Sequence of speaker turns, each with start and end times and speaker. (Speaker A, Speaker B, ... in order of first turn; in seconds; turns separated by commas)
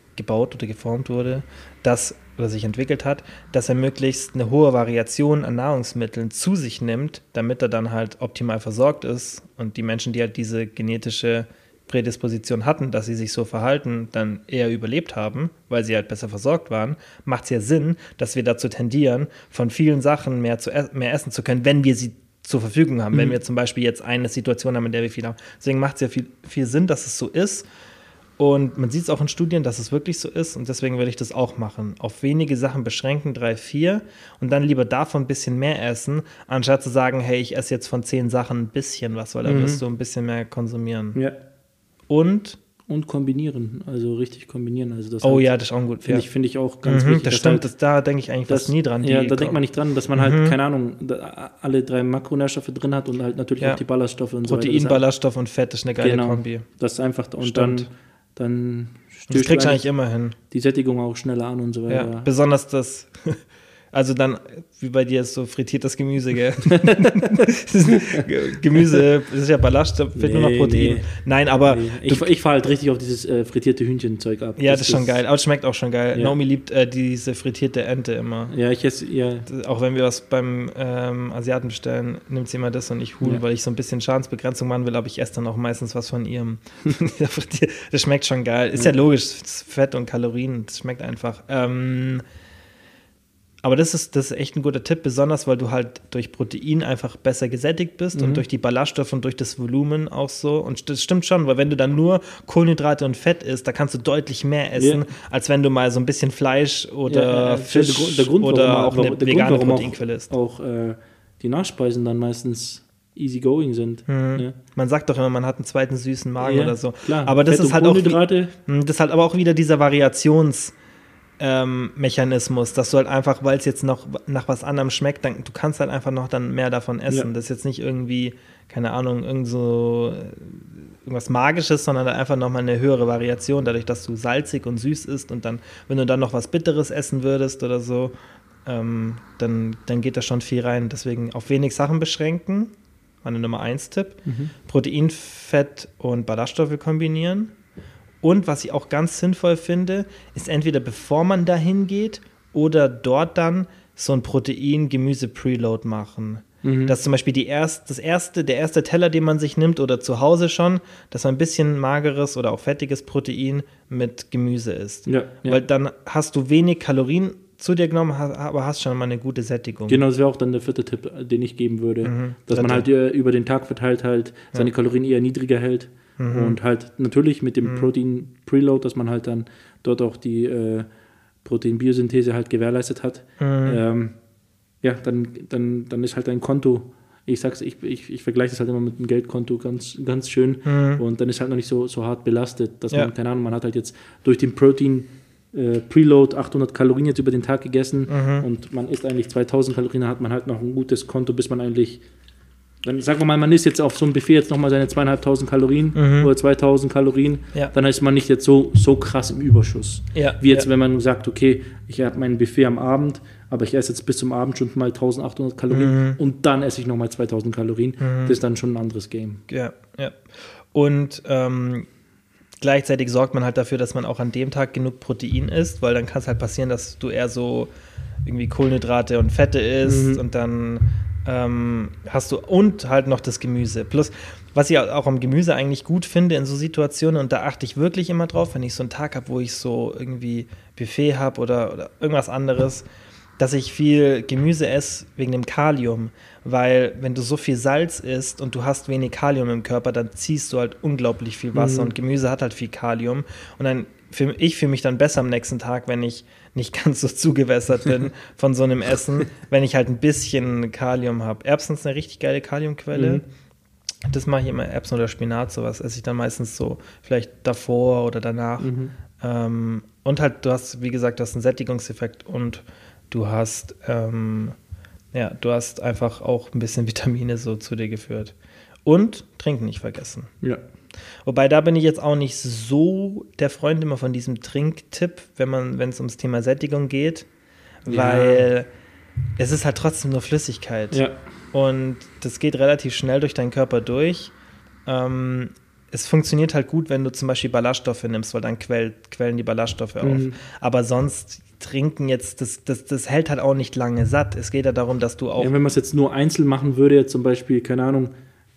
Speaker A: 0.1-27.7, Speaker A: 28.4-41.2, Speaker B: 39.4-39.8, Speaker A: 42.1-42.6, Speaker B: 42.9-45.5, Speaker A: 45.2-46.2, Speaker B: 46.0-47.7, Speaker A: 46.8-49.6, Speaker B: 48.5-55.0, Speaker A: 50.1-50.5, Speaker A: 54.4-56.6, Speaker B: 56.0-59.9, Speaker A: 57.4-57.9, Speaker A: 59.3-60.4, Speaker B: 60.5-62.3, Speaker A: 61.9-72.3, Speaker B: 66.7-67.3, Speaker B: 68.0-68.2, Speaker B: 70.1-75.2, Speaker A: 74.6-78.5, Speaker B: 78.5-79.5, Speaker A: 79.5-92.2, Speaker A: 93.6-110.3, Speaker B: 98.2-98.4, Speaker B: 104.8-105.0, Speaker B: 107.1-114.5, Speaker A: 114.1-120.7, Speaker B: 116.4-118.5, Speaker A: 121.4-138.1, Speaker A: 138.7-142.7, Speaker A: 143.2-147.5, Speaker B: 144.2-144.5, Speaker A: 148.2-170.0, Speaker B: 156.6-156.9, Speaker B: 165.1-165.6, Speaker B: 169.9-180.9, Speaker A: 172.0-172.8, Speaker A: 176.2-176.6, Speaker A: 177.6-177.9, Speaker B: 181.4-184.1, Speaker A: 183.4-183.8, Speaker B: 184.8-202.0, Speaker A: 190.7-191.0, Speaker A: 198.1-198.4, Speaker B: 202.8-219.4, Speaker A: 205.9-206.3, Speaker A: 210.1-210.7, Speaker A: 215.7-216.2, Speaker A: 218.0-218.4, Speaker A: 219.5-221.9, Speaker A: 222.6-227.7, Speaker A: 228.2-242.8, Speaker B: 229.8-230.2, Speaker A: 243.4-263.2, Speaker B: 251.5-251.9, Speaker B: 262.9-263.2, Speaker A: 264.1-274.6, Speaker B: 268.6-268.9, Speaker A: 275.1-278.3, Speaker A: 278.9-280.3, Speaker A: 281.2-287.2, Speaker A: 287.8-288.7, Speaker B: 287.9-288.4, Speaker A: 289.4-291.0, Speaker A: 291.5-294.3, Speaker A: 294.9-305.5, Speaker B: 300.0-300.4, Speaker B: 305.4-308.1